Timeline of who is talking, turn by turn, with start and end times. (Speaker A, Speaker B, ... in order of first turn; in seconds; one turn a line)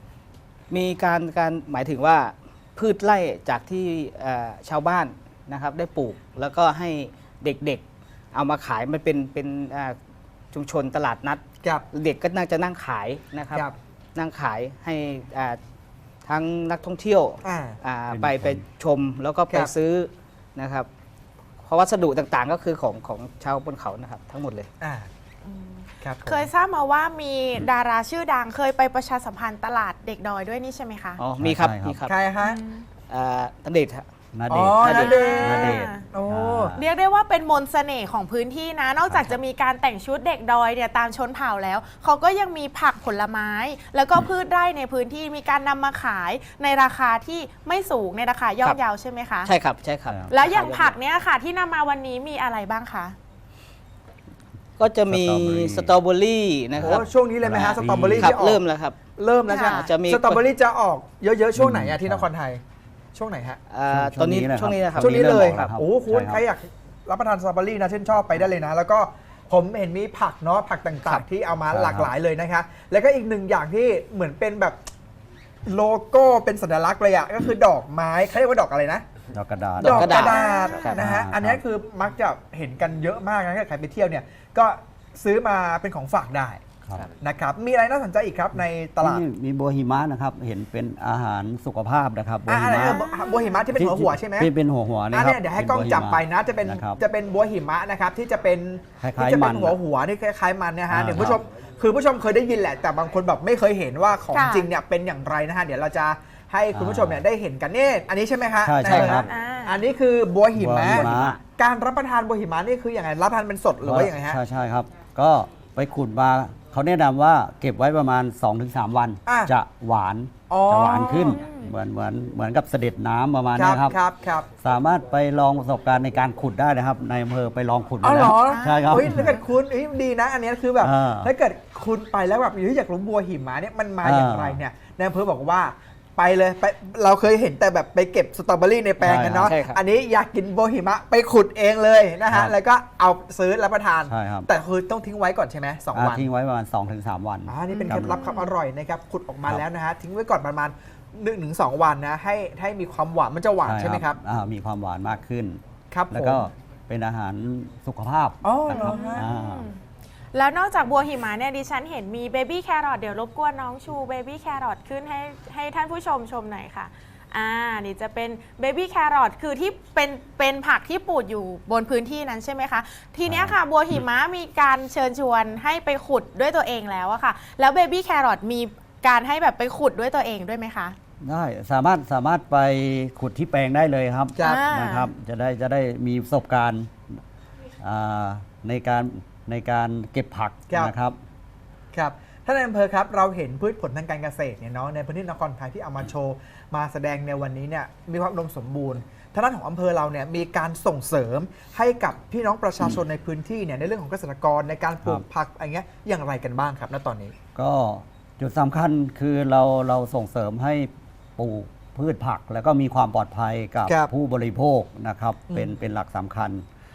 Speaker A: 0.7-10.0
Speaker A: 10.5-11.4
Speaker A: 11.9-15.6
Speaker A: 16.2-20.9
Speaker B: 17.4-17.8
Speaker C: 18.1-18.6
Speaker A: 21.6-24.7
Speaker B: 24.8-25.1
Speaker D: 25.4-31.2
Speaker B: 26.0-26.5
Speaker A: 31.2-32.2
Speaker C: 31.4-32.0
Speaker B: 32.1-32.6
Speaker D: 32.4-32.9
Speaker A: 33.1-34.0
Speaker C: 34.3-36.8
Speaker B: 34.5-35.5
Speaker A: 34.8-35.2
Speaker D: 34.8-36.1
Speaker B: 36.1-36.7
Speaker D: 36.7-49.5
Speaker C: 39.0-39.4
Speaker A: 49.4-51.0
Speaker D: 50.3-53.2
Speaker A: 54.8-59.0
Speaker C: 55.1-56.0
Speaker C: 56.7-58.4
Speaker B: 56.8-58.6
Speaker B: 59.2-62.6
Speaker D: 59.5-60.0
Speaker A: 59.7-60.4
Speaker C: 61.5-62.3
Speaker B: 63.1-63.6
Speaker A: 63.7-65.7
Speaker C: 63.9-66.4
Speaker B: 65.0-74.9
Speaker C: 71.7-72.1
Speaker B: 75.7-79.0
Speaker C: 79.3-80.3
Speaker A: 79.8-81.0
Speaker B: 79.8-86.6
Speaker D: 80.1-81.0
Speaker C: 80.9-81.6
Speaker B: 87.2-89.2
Speaker C: 89.0-93.0
Speaker B: 92.5-94.5
Speaker D: 92.8-93.6
Speaker C: 93.7-97.0
Speaker B: 95.1-114.4
Speaker C: 99.0-99.8
Speaker C: 100.9-101.4
Speaker D: 104.3-104.7
Speaker C: 106.7-107.2
Speaker C: 108.6-109.3
Speaker A: 108.8-109.3
Speaker D: 109.2-109.8
Speaker C: 110.5-111.4
Speaker C: 113.8-124.0
Speaker B: 119.2-119.5
Speaker B: 120.5-121.4
Speaker D: 121.1-121.7
Speaker B: 123.5-124.5
Speaker C: 124.6-129.4
Speaker B: 128.0-146.3
Speaker D: 128.3-129.4
Speaker C: 130.8-131.3
Speaker C: 134.0-134.6
Speaker C: 139.0-139.5
Speaker A: 139.3-139.8
Speaker C: 142.3-142.6
Speaker C: 144.1-144.5
Speaker C: 145.9-148.2
Speaker B: 147.5-154.2
Speaker D: 147.7-148.5
Speaker C: 153.6-159.7
Speaker B: 155.9-156.4
Speaker B: 158.4-159.3
Speaker D: 158.7-159.8
Speaker D: 160.3-181.0
Speaker C: 173.2-173.6
Speaker C: 181.2-186.9
Speaker B: 184.4-184.6
Speaker D: 184.4-185.1
Speaker C: 187.8-191.2
Speaker B: 191.9-207.3
Speaker C: 207.6-216.7
Speaker B: 215.5-215.8